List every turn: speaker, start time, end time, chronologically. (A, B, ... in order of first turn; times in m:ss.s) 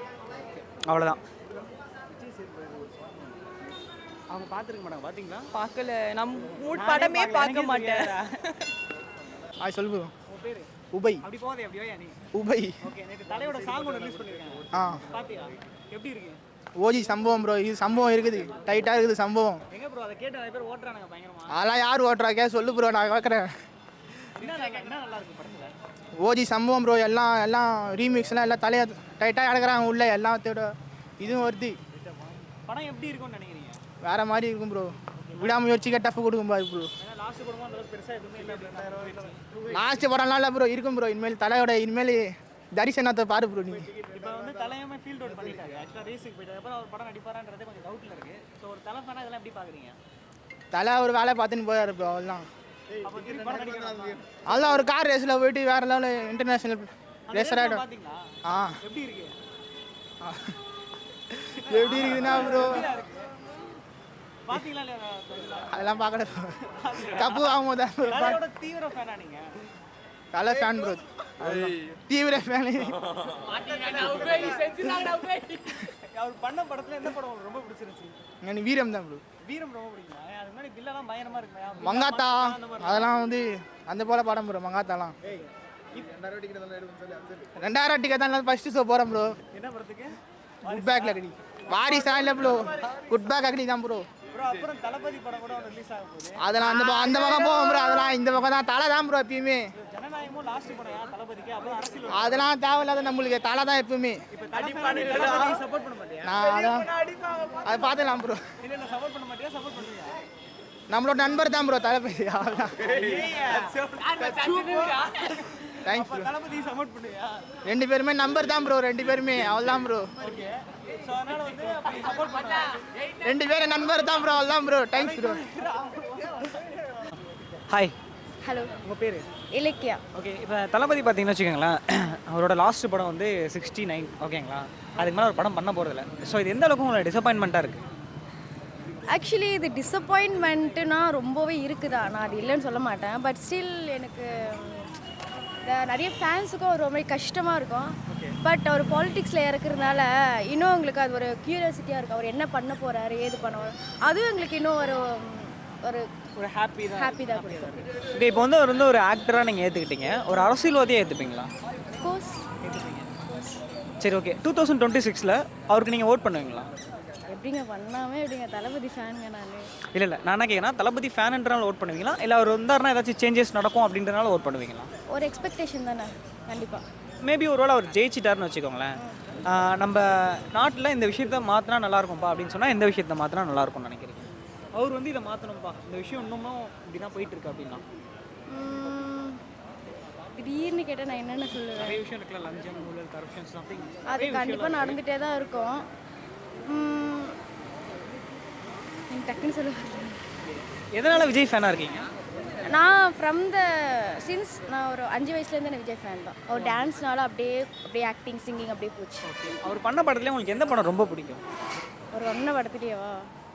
0:00.5-0:01.2 A
0:04.3-0:05.5 A
0:05.5-0:08.7 B
0:06.7-0:08.3 A
0:09.6-0:10.1 C
0:10.3-0:10.7 A
0:10.9-0:11.2 C
0:11.2-0:12.2 A
0:12.3-0:12.8 C
0:12.8-0:16.4 A
0:14.7-0:15.0 C
0:16.8-0:19.6 C
0:19.7-0:21.6 A
0:21.5-0:23.5 C
0:24.2-0:25.7 A
0:26.2-0:31.8 C
0:32.4-0:33.8 A
0:34.0-0:36.9 C
0:35.2-0:35.8 A
0:37.0-0:39.6 A
0:39.7-0:43.9 C
0:43.9-0:50.0 A
0:50.7-0:52.5 C
0:53.0-0:54.4 A
0:54.4-0:57.8 C
0:57.3-0:58.2 A
0:58.4-0:58.8 C
0:58.8-0:59.4 A
1:00.2-1:00.5 C
1:01.5-1:02.9 C
1:01.6-1:03.2 A
1:04.5-1:05.9 A
1:05.7-1:08.4 C
1:06.7-1:09.5 A
1:10.3-1:13.2 C
1:13.5-1:18.2 A
1:18.4-1:19.2 C
1:19.4-1:23.1 A
1:21.8-1:25.2 C
1:25.3-1:26.3 A
1:27.6-1:29.3 C
1:29.5-1:31.3 A
1:30.7-1:34.1 C
1:32.0-1:32.6 A
1:34.3-1:37.6 A
1:36.4-1:39.7 C
1:39.8-1:42.4 A
1:42.1-1:44.2 C
1:44.3-1:47.6 A
1:46.2-1:46.9 C
1:47.6-1:48.4 C
1:48.6-1:50.2 A
1:50.9-1:52.9 C
1:52.8-1:57.5 A
1:55.8-1:56.3 C
1:57.6-2:00.1 C
2:00.2-2:02.8 A
2:03.2-2:05.4 C
2:04.9-2:06.7 A
2:07.7-2:08.0 A
2:08.4-2:08.7 D
2:08.8-2:09.3 A
2:09.6-2:10.0 D
2:10.1-2:17.8 A
2:19.1-2:24.9 D
2:25.6-2:36.1 D
2:28.1-2:28.4 A
2:36.4-2:41.5 A
2:37.0-2:37.8 D
2:42.0-2:42.5 D
2:42.6-2:43.1 A
2:43.2-2:43.6 D
2:44.0-2:46.7 A
2:47.3-2:49.7 D
2:49.9-2:54.9 A
2:55.1-2:56.8 D
2:57.2-3:07.8 A
3:08.5-3:09.4 D
3:10.4-3:12.0 D
3:11.8-3:15.0 A
3:14.1-3:15.9 D
3:16.7-3:17.4 D
3:19.1-3:20.2 D
3:20.9-3:22.1 A
3:22.7-3:29.3 D
3:26.5-3:26.8 A
3:29.2-3:31.4 A
3:32.1-3:33.2 D